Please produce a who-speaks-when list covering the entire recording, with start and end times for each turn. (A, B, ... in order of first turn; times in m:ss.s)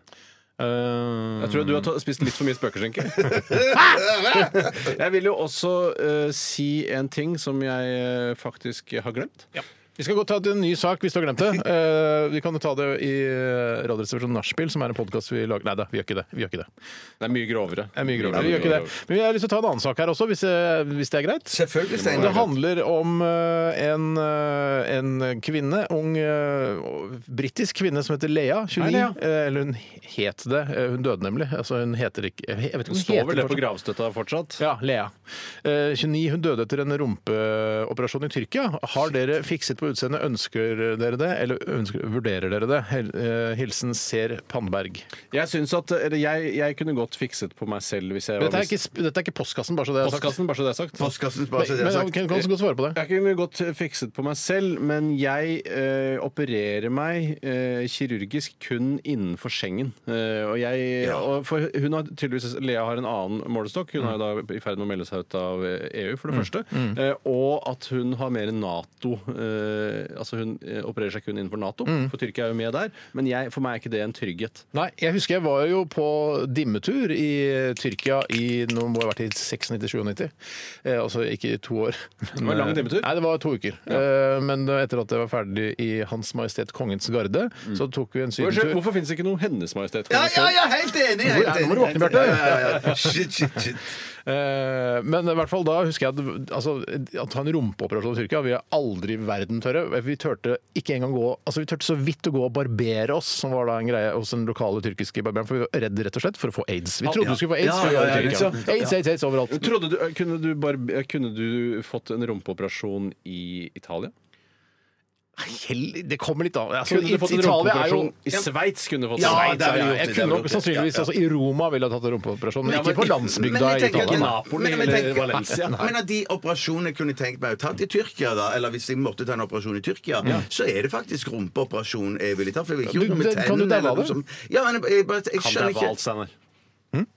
0:00.6-0:01.9 A
0:01.4-0:03.4 B
0:03.7-0:04.1 C
0:04.5-0:09.5 B
0:10.0-0:16.7 A
0:17.2-0:18.9 B
0:18.0-0:33.7 A
0:18.3-0:18.7 C
0:21.5-0:22.5 C
0:28.8-0:29.2 B
0:32.9-0:34.6 B
0:34.6-0:45.0 A
0:45.3-0:48.7 B
0:48.4-0:50.4 A
0:50.0-0:51.0 B
0:51.0-0:52.4 C
0:51.6-0:53.0 A
0:52.9-1:14.6 B
1:06.3-1:07.0 A
1:11.8-1:12.1 A
1:14.7-1:20.3 A
1:20.8-1:28.8 A
1:22.3-1:23.1 B
1:28.4-1:30.6 B
1:30.1-1:33.9 C
1:31.2-1:33.1 A
1:34.2-1:49.8 A
1:47.2-1:49.0 C
1:47.2-1:48.6 B
1:49.5-1:54.1 B
1:55.4-1:58.2 A
1:56.8-2:00.6 B
1:59.1-2:01.1 C
1:59.2-2:04.4 A
2:02.6-2:16.0 C
2:03.9-2:05.8 B
2:05.3-2:05.9 A
2:12.9-2:14.2 A
2:15.4-2:16.3 B